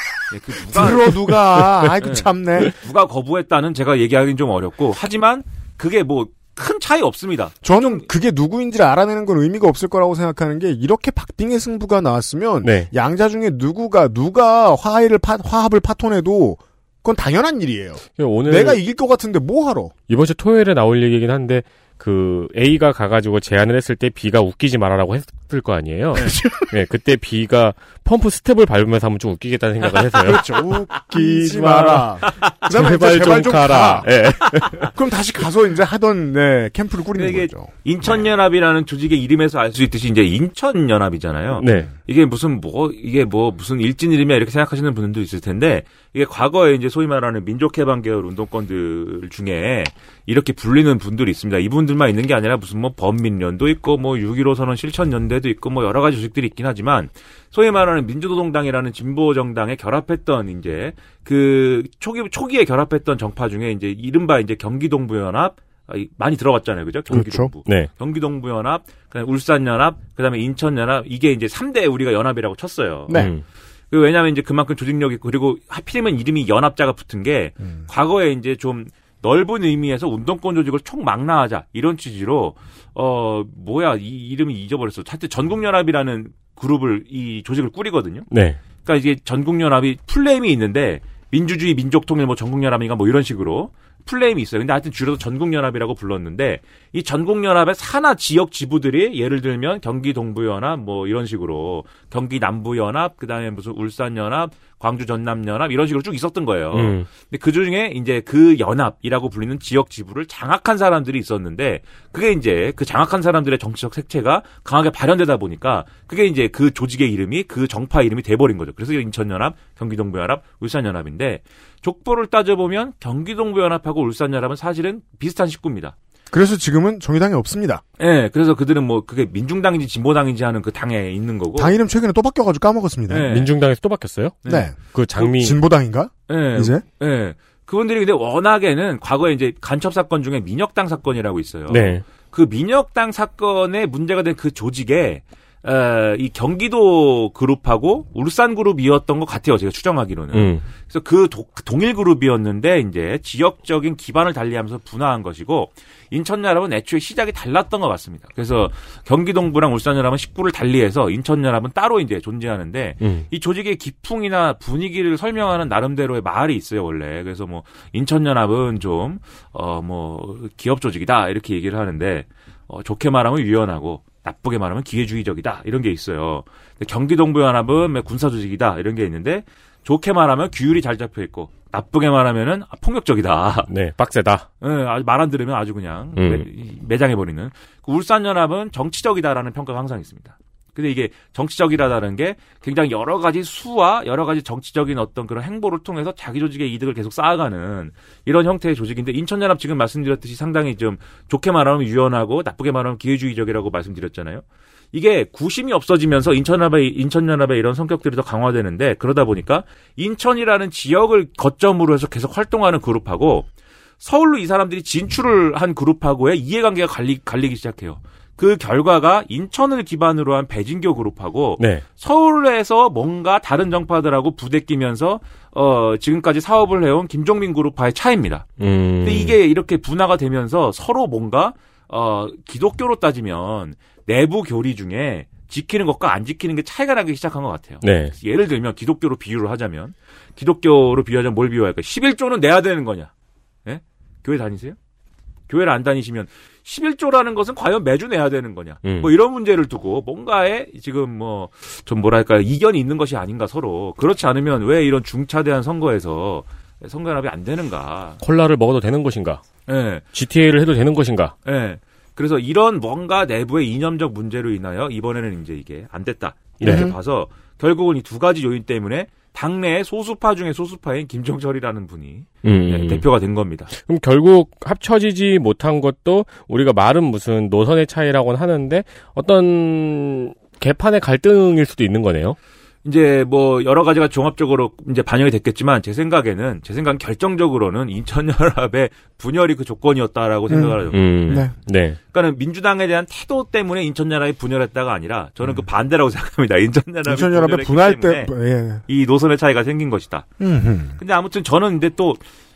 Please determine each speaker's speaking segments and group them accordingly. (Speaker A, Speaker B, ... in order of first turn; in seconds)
Speaker A: 0.3-1.4, 2.0-8.0, 37.1-73.3, 73.9-126.0, 128.0-131.8, 133.1-133.5, 134.4-134.7, 136.3-183.7, 184.6-213.5, 214.0-228.5, 229.0-243.1, 243.7-244.8, 245.5-258.2, 259.7-260.1, 261.4-273.7, 282.8-291.5, 292.0-298.3, 298.9-300.3, 301.0-302.2
Speaker B: 0.6-2.8, 7.6-19.9, 26.2-26.7, 30.1-34.2, 34.7-38.2, 67.1-67.5, 73.1-73.3, 77.6-77.9, 126.3-127.8, 131.6-133.3, 134.5-136.8, 266.6-267.0, 290.5-291.5, 297.1-298.8, 300.4-301.0
Speaker C: 12.6-12.9, 18.2-18.8, 20.1-34.9, 41.5-41.9, 67.1-67.9, 73.1-73.4, 88.3-88.6, 106.7-107.1, 133.2-135.6, 141.7-142.0, 150.3-150.7, 163.0-163.3, 183.7-184.5, 186.2-186.5, 221.6-221.8, 228.6-229.4, 237.8-238.1, 248.8-249.1, 258.2-259.4, 260.1-261.3, 266.6-266.9, 272.4-273.1, 273.7-282.4, 290.9-292.0